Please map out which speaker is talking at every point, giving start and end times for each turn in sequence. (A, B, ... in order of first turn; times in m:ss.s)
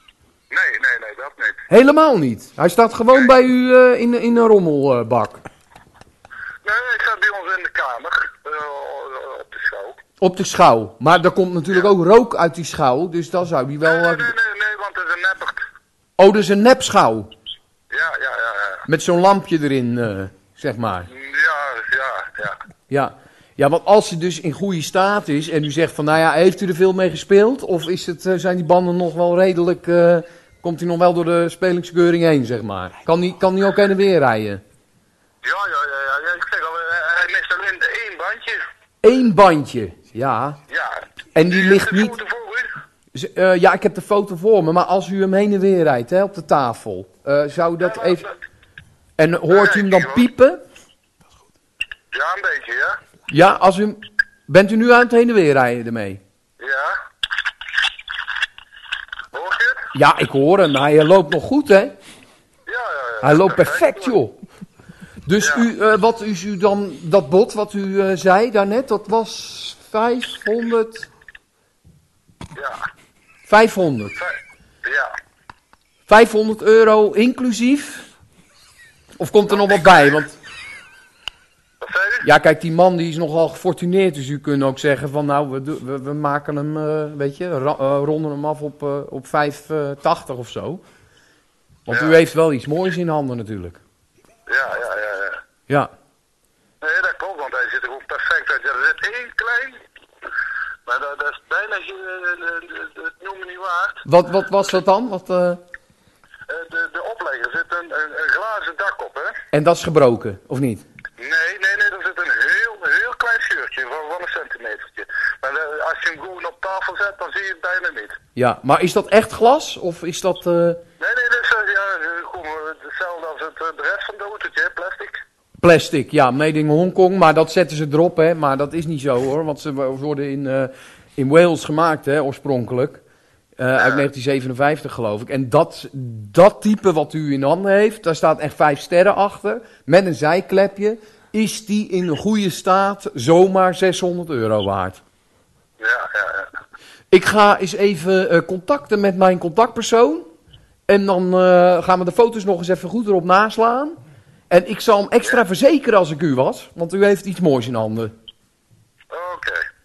0:00.5-0:01.6 A
0:01.7-0:05.4 B
0:06.6-0:10.0 A
0:10.2-0:14.3 B
0:13.8-0:15.6 A
0:16.2-0:17.3 B
0:17.9-0:18.8 A
0:18.9-0:21.1 B
0:21.1-0:22.6 A
0:22.9-0:34.6 B
0:35.4-0:38.6 A
0:39.0-0:40.6 B
0:40.7-0:42.7 A
0:41.3-0:42.1 B
0:43.1-0:48.2 B
0:47.8-0:48.3 A
0:49.2-0:50.6 B
0:49.5-0:50.2 A
0:52.1-0:53.0 A
0:53.3-0:56.2 B
0:56.6-0:57.0 A
0:59.3-0:59.9 A
0:59.9-1:02.0 B
1:02.7-1:04.2 A
1:03.2-1:04.4 B
1:05.2-1:11.1 B
1:05.4-1:05.7 A
1:12.6-1:12.8 A
1:13.4-1:14.2 B
1:14.2-1:15.2 A
1:16.1-1:18.1 B
1:19.2-1:20.4 B
1:19.5-1:20.1 A
1:21.8-1:22.2 A
1:22.2-1:30.8 B
1:31.8-1:33.8 B
1:31.9-1:32.2 A
1:34.5-1:35.4 A
1:36.8-1:39.8 A
1:40.8-1:44.0 A
1:44.0-1:45.6 B
1:46.5-1:49.4 A
1:49.5-1:50.8 B
1:51.2-1:58.2 A
1:58.4-2:00.8 B
2:01.0-2:05.2 A
2:05.6-2:13.0 B
2:13.6-2:25.0 B
2:25.8-2:26.5 A
2:27.1-2:30.3 B
2:30.9-2:34.0 B
2:34.5-2:38.1 B
2:39.1-2:39.6 A